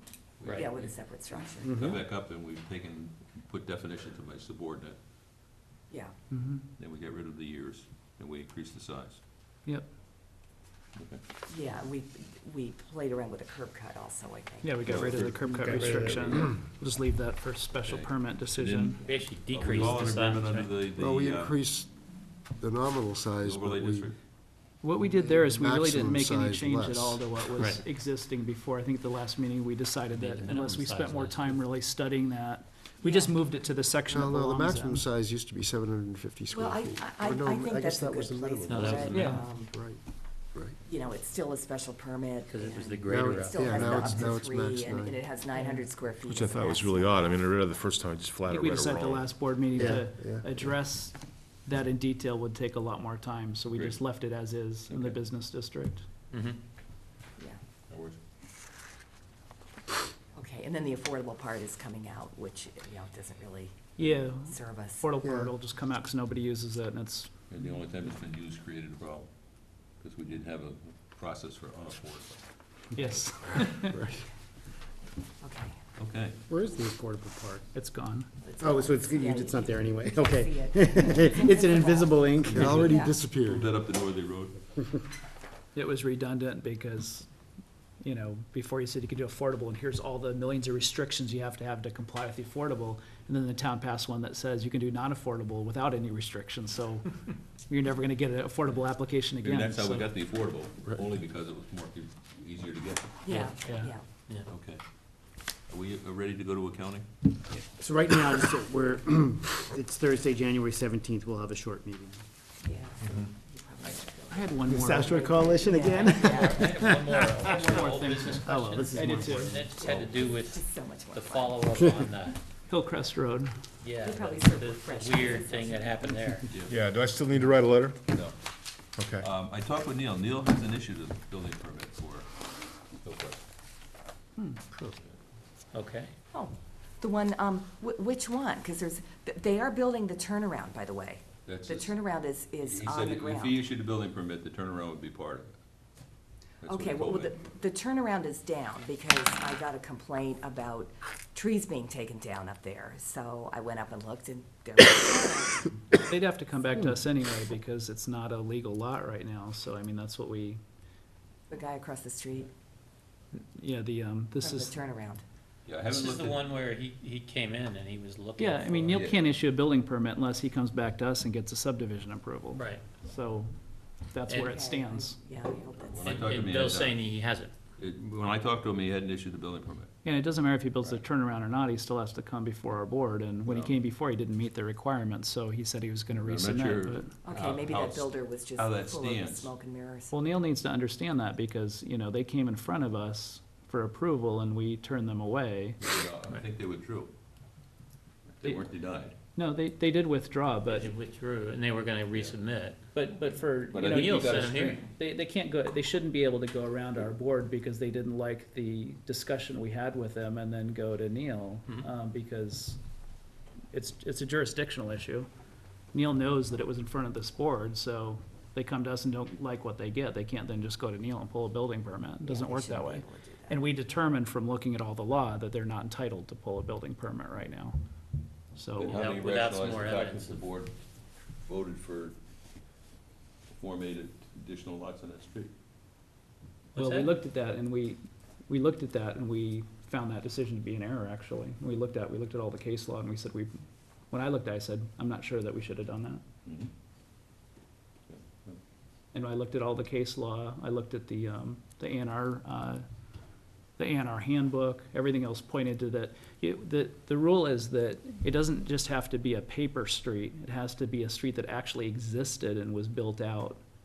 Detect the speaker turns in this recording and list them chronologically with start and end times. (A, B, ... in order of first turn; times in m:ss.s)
0:00.4-0:05.0 A
0:00.5-0:01.8 B
0:01.6-0:02.0 C
0:06.3-0:06.6 D
0:06.7-0:09.2 A
0:11.0-0:11.2 A
0:11.5-0:15.3 B
0:14.6-0:19.0 D
0:14.9-0:16.6 A
0:15.5-0:16.4 E
0:17.8-0:21.6 A
0:19.0-0:20.7 F
0:21.0-0:21.9 E
0:22.5-0:24.1 E
0:23.4-0:24.2 A
0:24.8-0:35.0 D
0:25.0-0:27.4 E
0:30.1-0:31.6 F
0:33.0-0:33.4 B
0:34.1-0:40.0 E
0:36.5-0:39.8 B
0:38.7-0:39.4 F
0:39.1-0:39.4 D
0:40.8-0:47.2 B
0:42.5-0:44.2 F
0:43.1-0:45.2 E
0:45.6-0:45.9 D
0:46.2-0:49.4 G
0:48.5-0:56.0 D
0:49.8-0:50.6 E
0:53.7-0:54.0 A
0:56.3-0:56.6 F
0:57.9-0:58.2 A
1:00.4-1:05.1 B
1:04.0-1:07.3 D
1:05.2-1:05.5 E
1:07.5-1:09.3 A
1:10.0-1:12.4 A
1:12.9-1:14.1 D
1:13.5-1:13.8 A
1:15.4-1:15.8 B
1:16.0-1:16.4 A
1:16.5-1:17.7 C
1:17.7-1:18.3 D
1:18.4-1:23.2 B
1:18.6-1:23.4 C
1:22.5-1:23.6 E
1:23.4-1:24.7 A
1:25.7-1:27.3 D
1:28.0-1:37.1 D
1:37.7-1:40.1 D
1:39.4-1:43.2 A
1:43.2-1:44.0 B
1:43.3-1:44.5 F
1:43.6-1:44.0 D
1:44.5-1:44.8 A
1:45.7-1:47.3 A
1:47.8-1:52.2 C
1:52.6-1:56.6 B
1:54.3-1:55.4 D
1:54.7-1:57.7 C
1:56.2-2:02.4 F
1:57.4-1:59.6 D
1:57.6-1:57.9 B
1:58.3-1:59.7 C
1:59.8-2:00.2 A
2:00.2-2:01.7 B
2:02.7-2:03.5 D
2:03.8-2:06.5 F
2:04.0-2:06.0 B
2:06.5-2:06.8 A
2:06.7-2:08.0 G
2:08.1-2:08.3 A
2:09.0-2:09.2 G
2:09.2-2:12.3 A
2:12.9-2:13.4 A
2:14.4-2:15.0 D
2:15.7-2:16.1 F
2:16.3-2:23.6 B
2:21.4-2:25.5 A
2:26.6-2:27.5 A
2:26.6-2:35.7 B
2:35.9-2:40.6 D
2:41.5-2:42.5 B
2:43.4-2:44.8 D
2:44.4-2:45.2 B
2:45.7-2:46.4 A
2:45.9-2:49.0 F
2:48.4-2:53.5 D
2:48.9-2:49.3 A
2:52.6-2:52.8 F
2:54.1-2:55.2 D
2:54.3-2:54.6 F
2:54.4-2:56.5 B
2:55.8-2:57.0 A
2:56.0-2:57.5 F
2:57.8-2:59.9 A
3:00.0-3:07.2 D
3:03.5-3:03.8 A
3:06.2-3:09.5 A
3:07.2-3:10.2 B
3:10.1-3:15.8 D
3:15.8-3:17.1 A
3:18.4-3:19.2 A
3:19.4-3:20.9 D
3:20.7-3:22.8 F
3:22.9-3:32.8 D
3:23.6-3:24.7 A
3:23.8-3:24.8 F
3:33.7-3:35.3 D
3:35.9-3:47.8 D
3:42.2-3:43.6 B
3:48.6-3:49.0 D
3:48.8-3:50.8 A
3:48.9-3:50.4 F
3:51.4-3:52.2 A
3:53.5-3:55.5 A
3:56.8-3:57.1 F
3:56.8-4:03.6 D
4:04.1-4:06.2 D
4:06.4-4:06.7 A
4:08.1-4:08.6 A
4:09.1-4:12.8 D
4:13.8-4:23.6 D